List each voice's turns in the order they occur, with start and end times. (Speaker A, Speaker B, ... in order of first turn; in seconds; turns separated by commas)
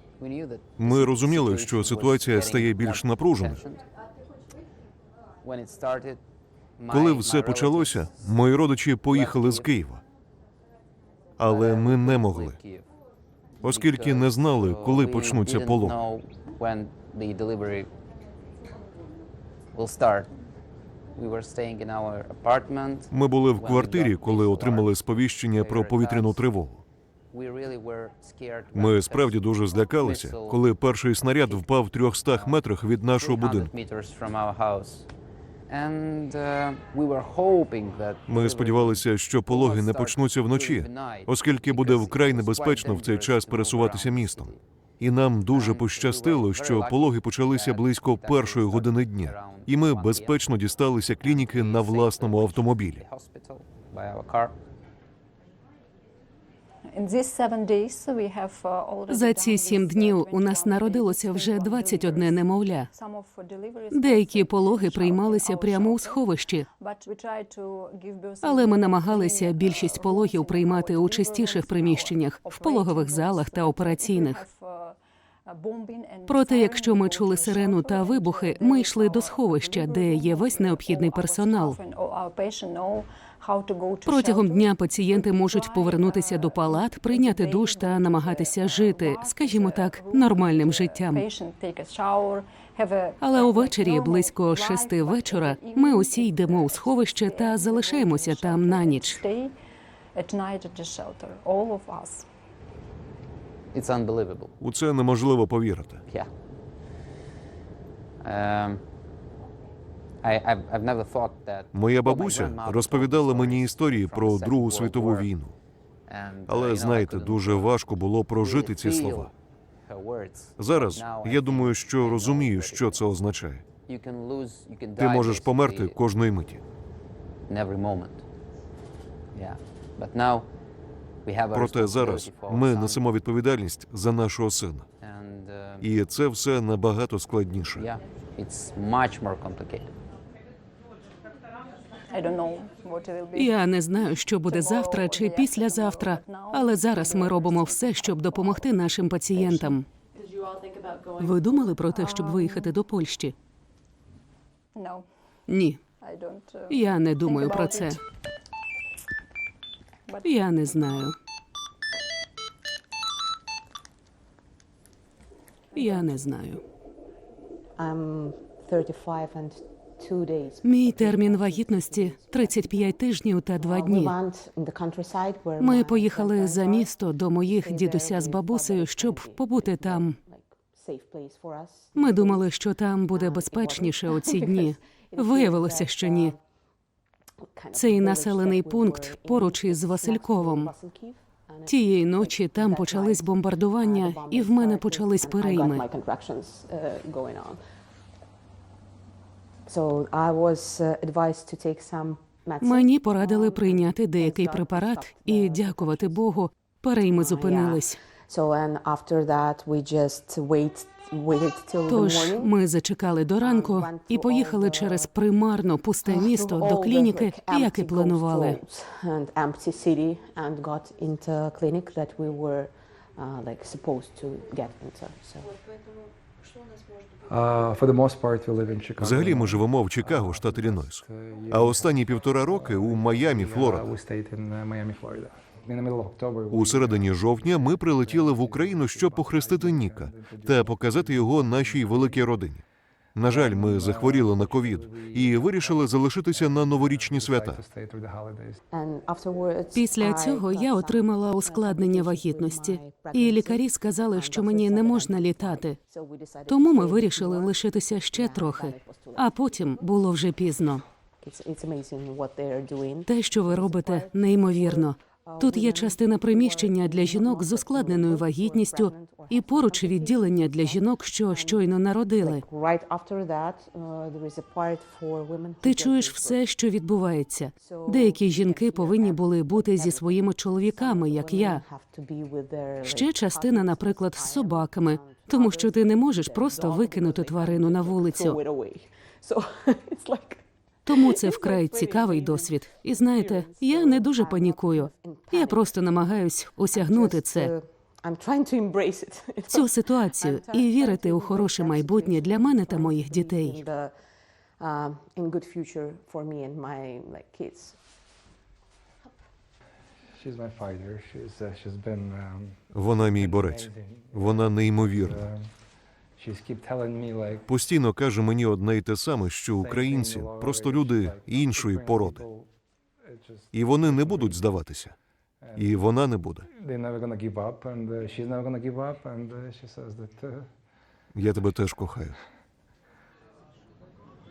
Speaker A: 0.2-3.8, Speaker B: 0.8-3.6, Speaker A: 5.4-6.2, Speaker A: 6.8-8.5, Speaker B: 6.9-10.0, Speaker A: 9.1-9.7, Speaker B: 11.4-12.6, Speaker A: 11.4-12.9, Speaker B: 13.6-16.0, Speaker A: 13.6-17.9, Speaker A: 19.7-20.3, Speaker A: 21.1-25.0, Speaker B: 23.1-26.8, Speaker A: 25.5-26.5, Speaker A: 27.3-30.6, Speaker B: 28.7-33.7, Speaker A: 31.3-32.6, Speaker A: 33.1-35.1, Speaker A: 35.7-44.6, Speaker B: 38.3-53.0, Speaker A: 45.5-50.5, Speaker A: 51.2-54.6, Speaker C: 56.9-99.6, Speaker D: 59.1-62.9, Speaker D: 63.9-66.7, Speaker D: 68.4-74.4, Speaker D: 76.3-81.8, Speaker D: 84.0-91.3, Speaker D: 93.2-99.2, Speaker C: 100.1-102.3, Speaker A: 103.7-104.5, Speaker B: 104.6-106.0, Speaker A: 108.2-108.8, Speaker A: 110.2-115.3, Speaker B: 111.7-115.5, Speaker A: 116.1-117.8, Speaker B: 116.5-119.3, Speaker A: 118.4-119.3, Speaker A: 119.8-123.0, Speaker B: 120.6-123.7, Speaker A: 123.9-126.0, Speaker B: 125.0-126.6, Speaker A: 127.5-128.2, Speaker A: 129.3-130.5, Speaker A: 131.2-133.2, Speaker B: 131.5-134.9, Speaker A: 135.0-135.9, Speaker B: 135.8-137.9, Speaker A: 137.7-139.9, Speaker C: 142.1-143.6, Speaker D: 143.3-149.9, Speaker C: 144.4-148.7, Speaker C: 149.4-149.7, Speaker D: 151.2-153.3, Speaker C: 151.9-152.8, Speaker C: 154.7-155.1, Speaker D: 155.5-155.8, Speaker C: 156.0-158.0, Speaker D: 156.7-158.0, Speaker C: 160.1-161.0, Speaker D: 160.2-161.2, Speaker D: 165.8-166.6, Speaker C: 165.8-166.0, Speaker E: 167.8-172.9, Speaker D: 170.6-174.1, Speaker E: 173.5-186.4, Speaker D: 175.6-180.2, Speaker D: 181.9-186.3, Speaker E: 187.5-197.6, Speaker D: 187.7-190.7, Speaker D: 191.7-195.8, Speaker E: 199.7-206.3, Speaker D: 202.6-208.0, Speaker E: 207.0-212.6, Speaker D: 211.9-218.6, Speaker E: 213.4-215.2, Speaker E: 216.0-225.6, Speaker F: 227.2-242.3, Speaker B: 229.0-233.9, Speaker B: 236.5-242.6, Speaker B: 243.2-247.6, Speaker F: 243.2-248.6, Speaker E: 248.7-259.4, Speaker D: 249.7-255.8, Speaker D: 256.5-260.8, Speaker E: 261.2-276.4, Speaker D: 263.1-272.4, Speaker D: 275.6-281.6, Speaker E: 277.6-303.9, Speaker D: 282.8-288.4, Speaker D: 290.9-297.5, Speaker D: 299.5-303.7, Speaker E: 304.6-307.8, Speaker F: 310.1-315.6, Speaker B: 312.7-315.3, Speaker F: 316.1-317.5, Speaker B: 317.5-322.2, Speaker F: 319.6-322.5, Speaker F: 323.0-324.5, Speaker B: 323.5-325.0, Speaker F: 325.4-325.9, Speaker B: 325.6-326.5, Speaker F: 326.4-330.5, Speaker B: 331.1-332.2